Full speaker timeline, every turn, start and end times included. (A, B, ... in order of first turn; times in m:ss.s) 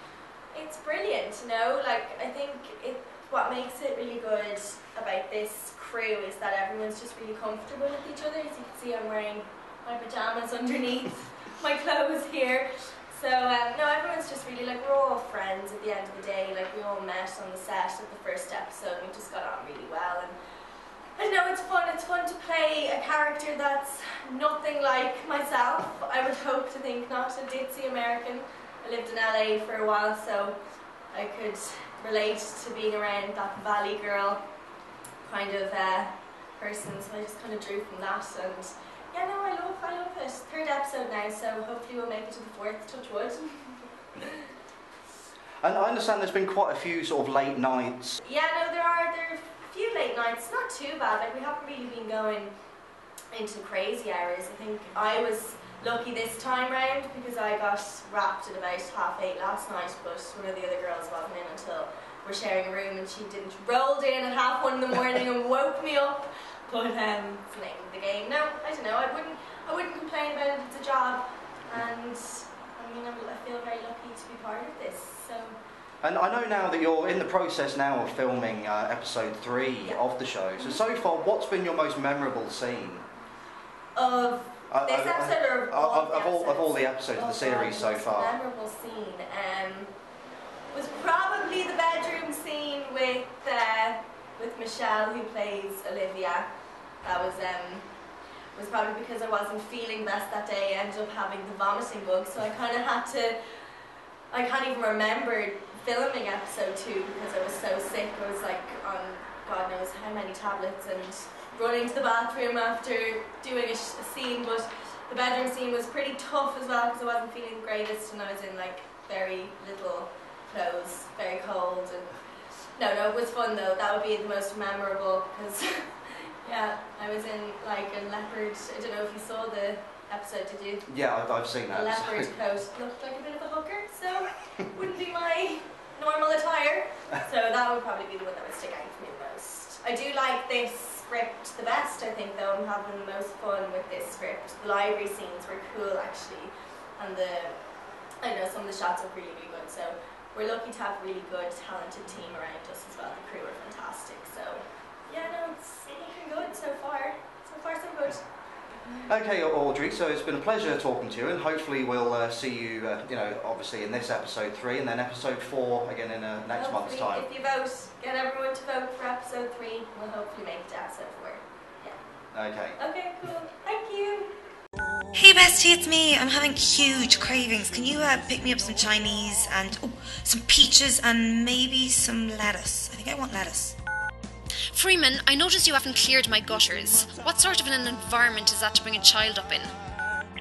0:00.5-0:20.3 A
0:21.2-0:30.6 A
0:31.1-0:34.4 A
0:35.2-0:44.4 A
0:45.6-0:48.2 B
0:48.2-0:52.5 A
0:53.3-1:15.6 A
1:16.0-1:23.0 B
1:23.9-1:29.9 A
1:24.7-1:28.4 B
1:30.7-1:36.5 A
1:37.0-1:37.8 A
1:38.5-1:43.4 A
1:44.3-2:02.2 A
2:02.8-2:10.8 A
2:10.9-2:12.3 B
2:11.7-2:27.6 A
2:28.2-2:38.2 A
2:39.0-2:47.3 B
2:46.5-2:52.0 A
2:52.3-2:52.8 B
2:52.8-2:54.3 A
2:55.1-3:03.8 C
3:04.7-3:09.7 D